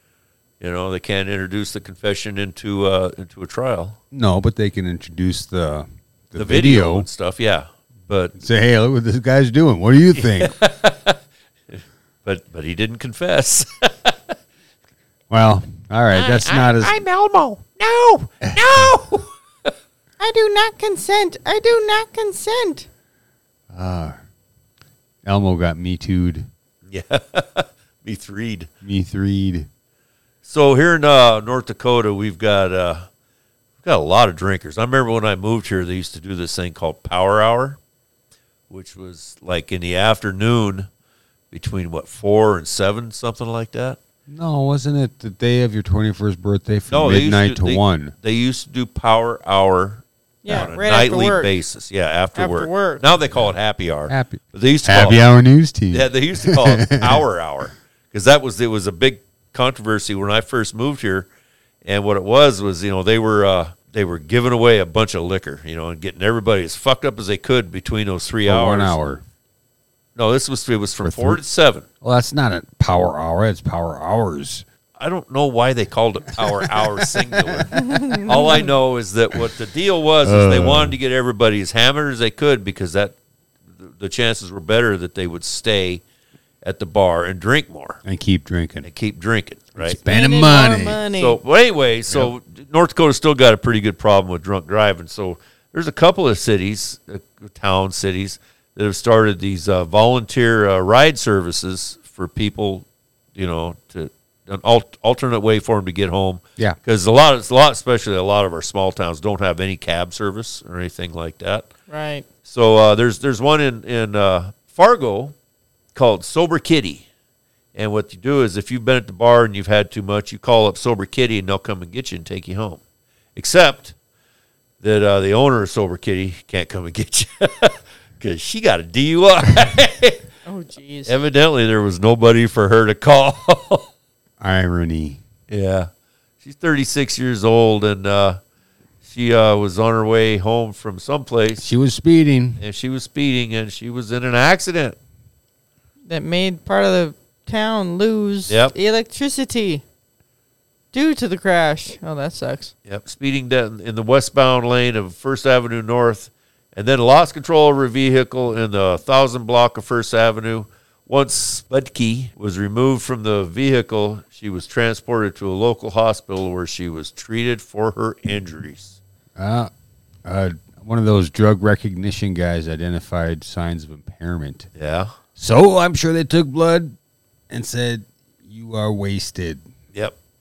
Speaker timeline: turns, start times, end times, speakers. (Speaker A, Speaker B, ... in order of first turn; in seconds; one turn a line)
Speaker A: 0.6-4.0
Speaker B: 4.1-7.1
Speaker A: 6.3-8.3
Speaker B: 8.3-10.5
Speaker A: 10.1-14.3
Speaker B: 15.3-17.0
Speaker A: 16.1-19.7
Speaker B: 18.4-18.8
Speaker C: 20.2-22.9
Speaker B: 23.7-24.1
Speaker B: 25.2-26.5
Speaker A: 26.8-28.7
Speaker B: 28.8-29.7
Speaker A: 30.4-33.1
Speaker A: 33.8-37.8
Speaker A: 38.7-40.9
Speaker A: 41.5-44.0
Speaker B: 44.3-48.1
Speaker A: 46.9-55.3
Speaker C: 50.4-51.5
Speaker C: 52.3-53.0
Speaker B: 54.1-57.2
Speaker A: 55.9-61.3
Speaker A: 61.8-69.0
Speaker B: 68.4-69.2
Speaker A: 70.1-71.9
Speaker B: 71.0-71.4
Speaker B: 72.0-74.6
Speaker A: 75.0-83.2
Speaker C: 77.8-78.6
Speaker B: 80.2-81.0
Speaker A: 83.7-86.0
Speaker A: 86.6-88.0
Speaker B: 88.0-88.9
Speaker A: 88.8-90.0
Speaker B: 89.7-91.0
Speaker C: 90.1-91.4
Speaker A: 91.1-111.7
Speaker C: 111.9-112.2
Speaker A: 112.4-115.3
Speaker A: 115.9-117.0
Speaker A: 117.7-122.8
Speaker A: 123.3-123.9
Speaker A: 124.8-130.2
Speaker C: 130.4-131.1
Speaker A: 131.1-133.9
Speaker B: 134.4-135.2
Speaker A: 135.5-135.9
Speaker A: 136.4-138.4
Speaker A: 139.0-141.7
Speaker B: 141.6-142.6
Speaker A: 142.6-145.0
Speaker C: 146.1-149.8
Speaker A: 148.5-148.7
Speaker C: 150.9-152.7
Speaker A: 152.8-169.0
Speaker B: 169.4-169.7
Speaker B: 170.2-174.7
Speaker A: 174.7-175.1
Speaker B: 175.3-176.9
Speaker B: 177.5-179.7